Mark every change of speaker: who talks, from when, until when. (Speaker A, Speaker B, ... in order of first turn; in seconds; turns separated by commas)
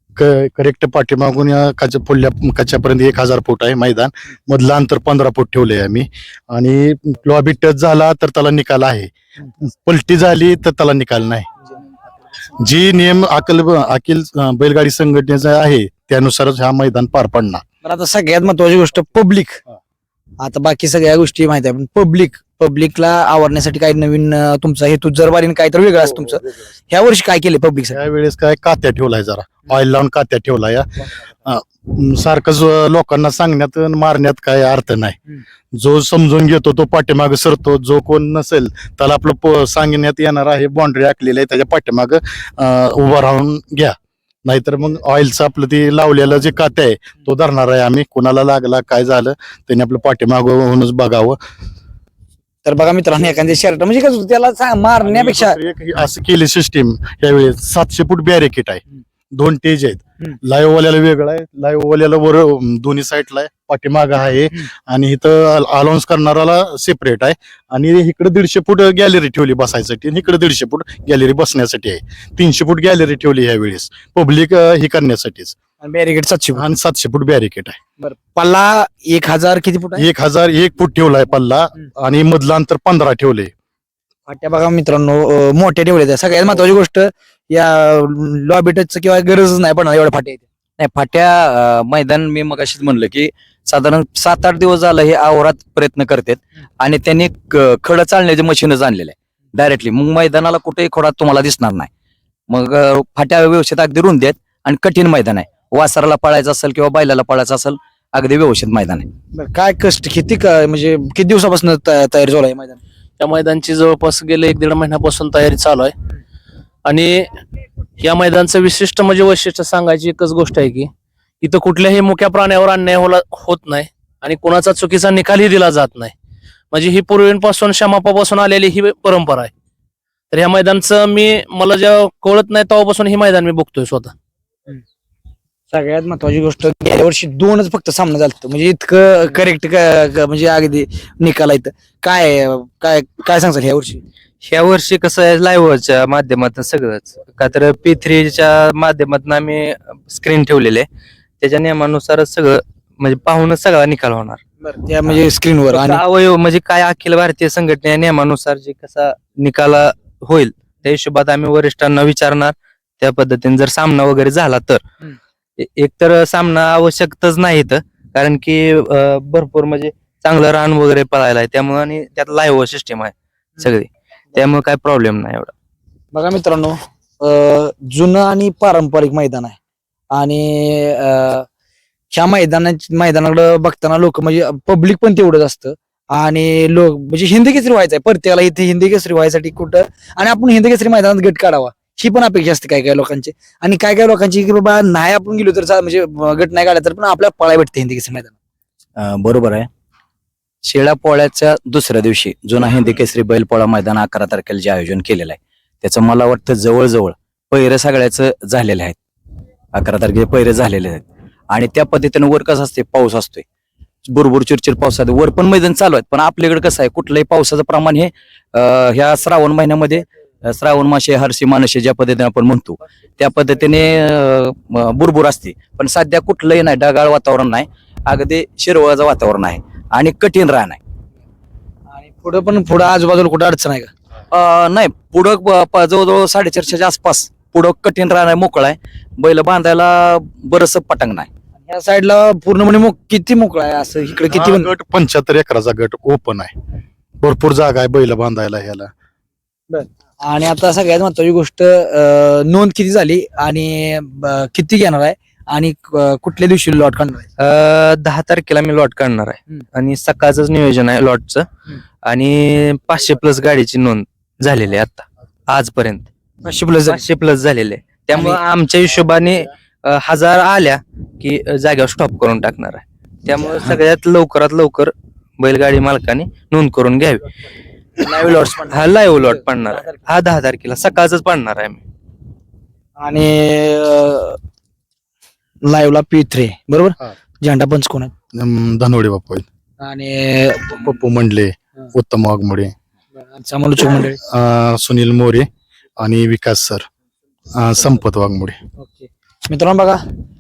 Speaker A: 0.2-11.5, Speaker A: 12.6-17.6, Speaker B: 17.8-19.6, Speaker B: 20.4-28.0, Speaker A: 27.9-30.9, Speaker A: 31.4-35.2, Speaker A: 35.8-44.0, Speaker A: 44.5-51.4, Speaker B: 52.6-55.6, Speaker A: 55.0-58.8, Speaker A: 59.4-75.6, Speaker B: 75.8-76.7, Speaker A: 76.6-77.8, Speaker B: 78.0-80.1, Speaker A: 80.0-83.5, Speaker B: 84.3-90.5, Speaker C: 90.8-101.9, Speaker C: 102.5-109.1, Speaker B: 109.3-112.8, Speaker D: 113.2-115.9, Speaker D: 116.9-117.4, Speaker D: 118.0-126.1, Speaker D: 126.7-129.5, Speaker D: 130.3-134.1, Speaker B: 135.7-144.0, Speaker E: 144.4-150.9, Speaker E: 151.4-154.4, Speaker B: 154.6-156.0, Speaker E: 155.7-164.8, Speaker E: 165.6-175.5, Speaker B: 176.1-179.6, Speaker B: 180.1-181.5, Speaker B: 182.1-198.4, Speaker C: 199.0-199.7, Speaker C: 200.7-209.0, Speaker C: 209.8-213.4, Speaker C: 214.1-230.8, Speaker B: 231.9-233.9, Speaker C: 234.3-241.3, Speaker B: 241.7-244.7, Speaker A: 244.3-246.5, Speaker A: 247.2-248.9, Speaker B: 249.7-257.3, Speaker E: 257.4-261.5, Speaker E: 262.1-266.1, Speaker B: 266.4-267.1, Speaker E: 266.9-277.2, Speaker B: 268.1-268.4, Speaker B: 273.5-273.8, Speaker B: 278.0-280.1, Speaker E: 278.7-281.8, Speaker B: 283.0-284.4, Speaker B: 285.7-288.1, Speaker A: 288.3-289.5, Speaker B: 289.8-290.9, Speaker A: 290.8-292.7, Speaker B: 293.2-294.2, Speaker A: 294.2-295.5, Speaker A: 296.0-296.9, Speaker A: 297.6-298.6, Speaker B: 298.8-300.0